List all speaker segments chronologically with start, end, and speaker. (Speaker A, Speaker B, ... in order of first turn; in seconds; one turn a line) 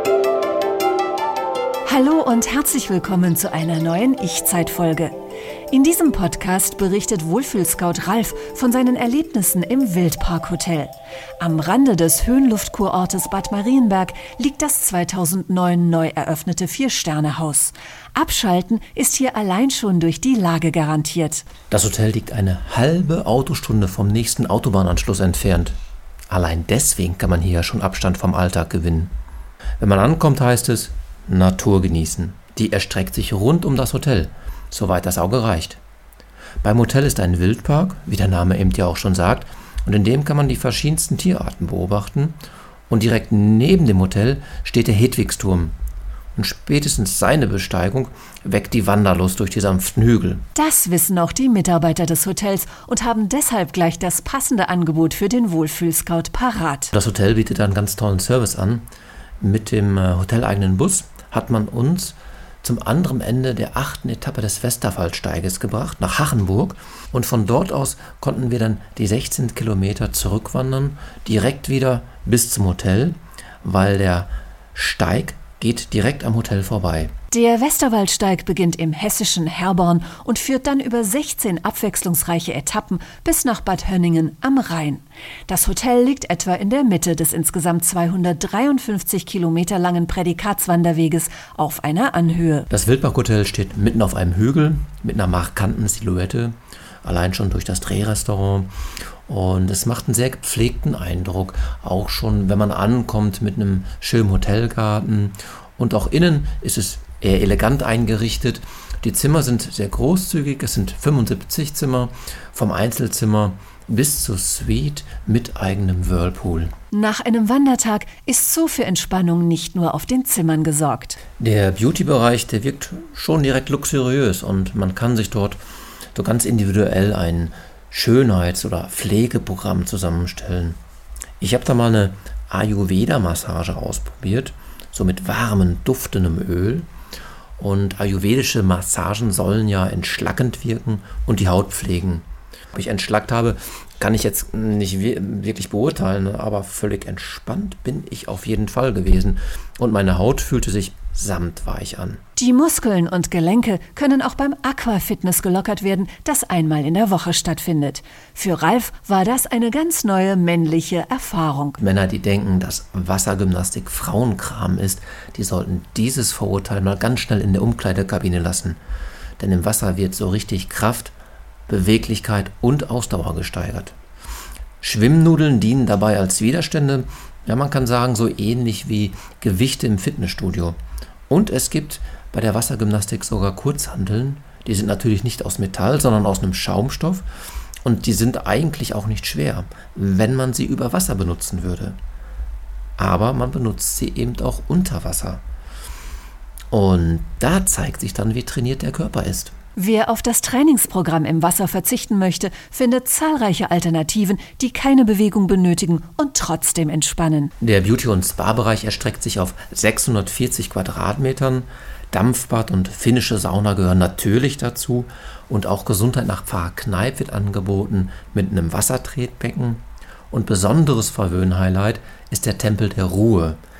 Speaker A: 1.9-5.2
Speaker A: 5.7-21.4
Speaker B: 21.7-25.8
Speaker B: 26.3-29.1
Speaker B: 29.8-35.8
Speaker B: 36.6-42.4
Speaker B: 42.9-45.7
Speaker B: 46.3-50.4
Speaker A: 50.5-56.9
Speaker B: 56.9-58.9
Speaker B: 59.4-77.1
Speaker A: 77.3-92.7
Speaker B: 92.7-98.7
Speaker B: 99.3-116.7
Speaker A: 116.9-121.2
Speaker B: 121.4-125.6
Speaker B: 126.1-130.8
Speaker B: 131.4-136.9
Speaker B: 137.6-152.2
Speaker A: 152.3-161.8
Speaker B: 161.8-168.8
Speaker B: 169.4-171.1
Speaker B: 171.7-173.9
Speaker B: 174.8-180.8
Speaker B: 181.3-187.2
Speaker B: 187.8-192.0
Speaker B: 193.0-195.4
Speaker B: 196.7-199.5
Speaker A: 199.8-207.5
Speaker B: 207.6-223.6